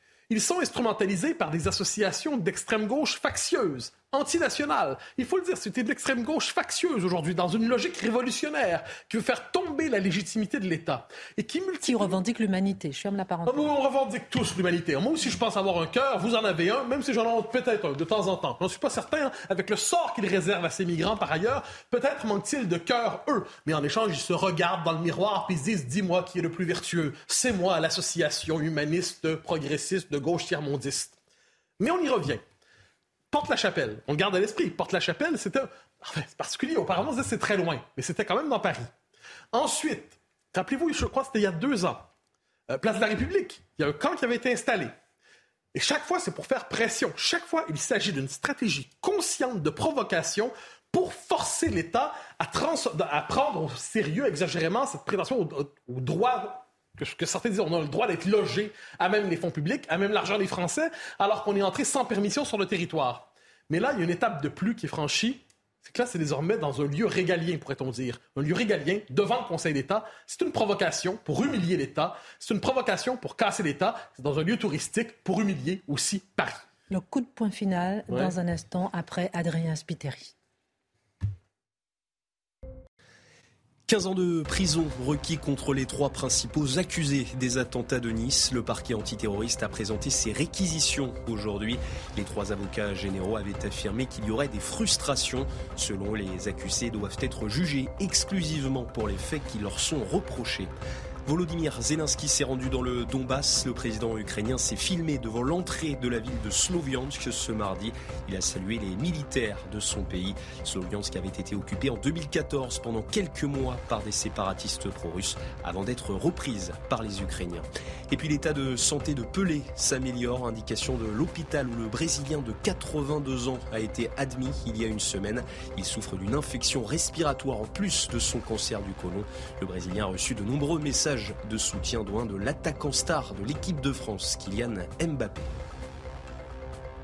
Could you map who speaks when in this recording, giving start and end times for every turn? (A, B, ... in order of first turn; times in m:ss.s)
0:00.3-0:12.2 A
0:11.8-0:13.7 B
0:13.4-0:31.2 A
0:31.8-0:32.4 A
0:33.3-0:38.9 A
0:39.5-0:42.1 A
0:42.7-0:44.9 A
0:45.7-1:16.6 A
1:16.9-1:20.3 B
1:18.1-1:18.3 A
1:23.9-1:40.7 C
1:41.2-2:15.5 C